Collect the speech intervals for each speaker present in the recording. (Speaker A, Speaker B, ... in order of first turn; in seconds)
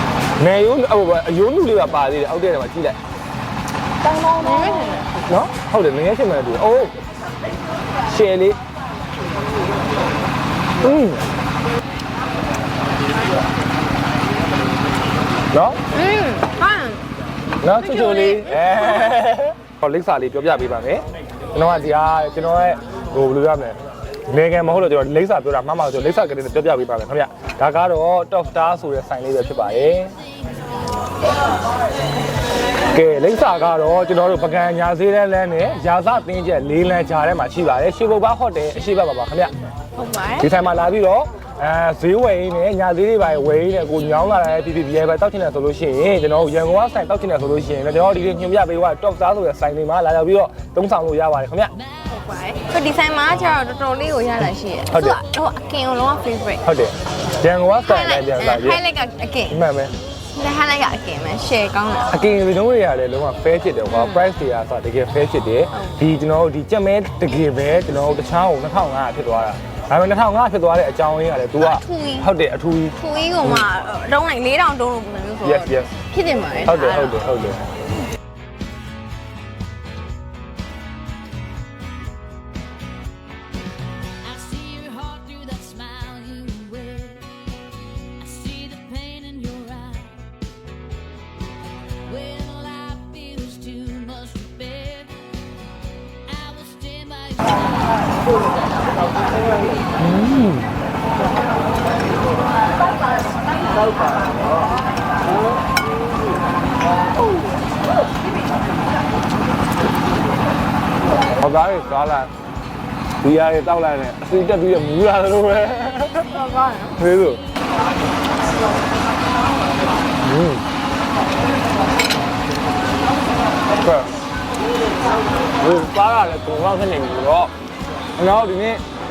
Speaker A: 0.4-3.0, 4.0-7.0, 8.1-8.6, 10.8-11.2, 15.5-15.8, 17.6-23.8, 24.3-30.1, 32.9-39.5, 40.4-51.7, 54.9-55.2, 56.6-58.8, 59.5-59.9, 62.1-73.7, 75.4-75.9, 76.7-77.7, 100.0-100.7, 111.4-112.3, 113.2-116.3, 117.0-117.4, 120.2-120.6, 123.8-124.1, 125.6-127.5, 128.2-128.8
Speaker B: 4.3-5.1, 15.9-17.0, 17.8-19.2, 40.0-40.5, 52.1-56.6, 57.8-59.6, 60.3-62.1, 63.9-64.3, 71.6-72.3, 73.0-77.3, 116.3-117.0
Speaker C: 84.3-87.2, 88.2-90.2, 92.1-95.2, 96.3-97.6